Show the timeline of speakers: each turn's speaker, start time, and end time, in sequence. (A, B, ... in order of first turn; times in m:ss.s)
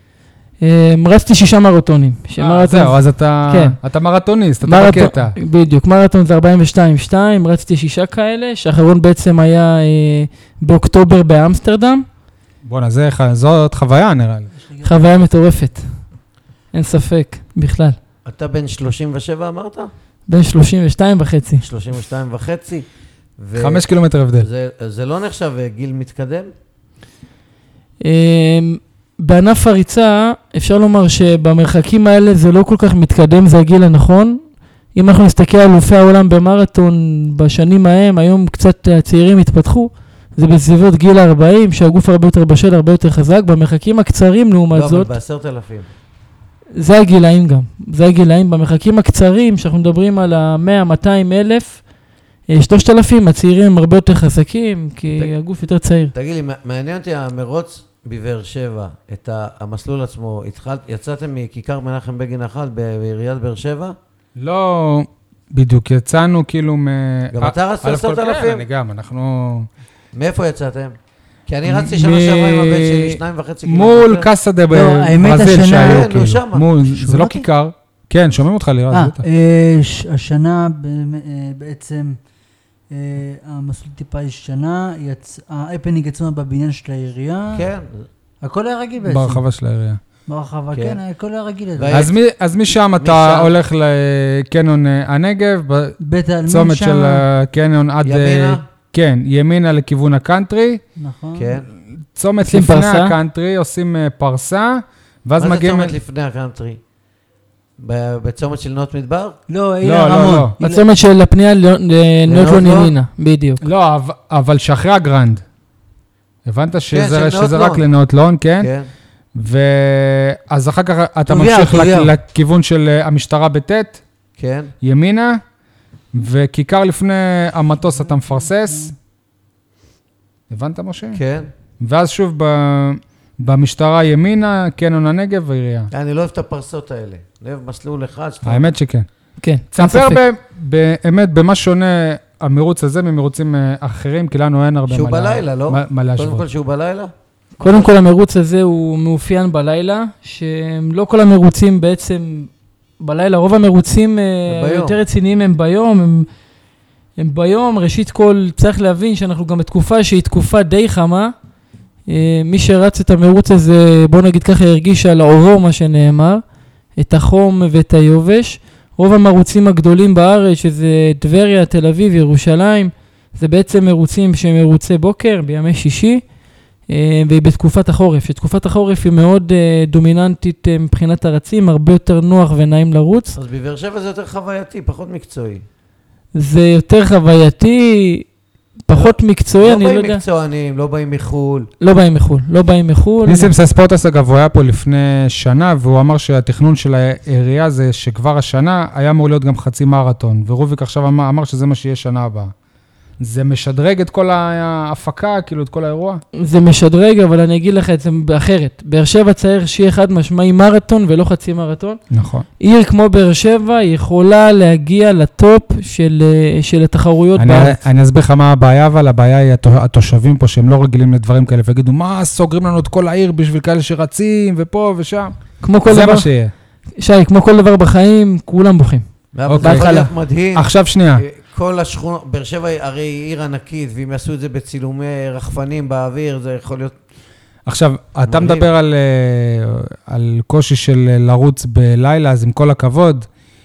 0:00.6-0:03.8 A
0:02.4-0:05.4 B
0:04.6-0:12.0 A
0:12.6-0:14.5 B
0:14.5-0:15.2 C
0:14.8-0:15.9 A
0:16.7-0:18.0 A
0:18.2-0:19.9 D
0:20.3-0:21.6 A
0:21.6-0:22.8 D
0:23.4-0:23.9 D
0:23.6-0:24.5 B
0:24.4-0:26.5 D
0:28.0-0:34.4 A
0:34.9-0:45.1 A
0:44.7-0:45.8 D
0:46.7-0:51.8 A
0:52.5-0:56.1 A
0:56.1-1:03.9 D
1:04.4-1:09.7 B
1:07.3-1:08.6 D
1:10.1-1:10.9 D
1:11.5-1:14.3 D
1:11.7-1:19.2 B
1:14.7-1:16.1 C
1:15.6-1:16.7 D
1:16.8-1:17.4 C
1:18.9-1:22.2 C
1:22.9-1:27.6 C
1:27.5-1:28.0 D
1:28.4-1:29.4 C
1:29.0-1:30.0 B
1:30.3-1:32.0 C
1:30.7-1:31.0 D
1:31.8-1:32.1 D
1:31.9-1:40.8 B
1:33.0-1:33.5 D
1:36.0-1:37.2 C
1:38.0-1:38.6 D
1:41.0-1:41.5 C
1:41.3-1:41.7 D
1:41.9-1:46.0 B
1:42.4-1:43.2 A
1:45.4-1:46.8 D
1:47.8-1:49.4 D
1:49.5-1:50.8 C
1:49.8-1:50.5 B
1:50.6-1:53.6 A
1:52.3-1:52.9 D
1:53.6-1:55.4 B
1:56.4-1:58.7 B
1:56.9-1:57.8 D
1:58.6-1:58.9 D
1:59.3-2:04.0 B
2:01.3-2:02.1 C
2:04.4-2:04.7 D
2:04.8-2:05.4 B
2:06.1-2:08.9 B
2:10.5-2:11.2 B
2:11.1-2:11.5 D
2:11.8-2:15.9 B
2:15.9-2:18.6 D
2:18.4-2:19.1 B
2:19.4-2:20.2 A
2:19.7-2:26.4 B
2:24.9-2:27.1 D
2:27.6-2:36.3 A
2:34.5-2:35.0 D
2:37.2-2:41.3 A
2:42.1-2:46.4 A
2:47.0-2:56.2 A
2:56.9-3:03.4 A
3:03.4-3:05.6 D
3:06.3-3:08.3 A
3:08.9-3:10.2 A
3:08.9-3:11.7 D
3:11.8-3:13.5 A
3:13.2-3:22.5 B
3:23.2-3:26.2 B
3:26.4-3:32.0 A
3:32.1-3:32.4 B
3:32.6-3:37.8 A
3:37.4-3:46.5 B
3:45.6-3:46.3 A
3:47.0-3:49.0 A
3:49.3-3:56.9 D
3:49.5-3:49.9 B
3:49.6-3:50.1 A
3:50.6-3:51.2 B
3:57.6-4:03.3 B
3:58.3-3:58.7 D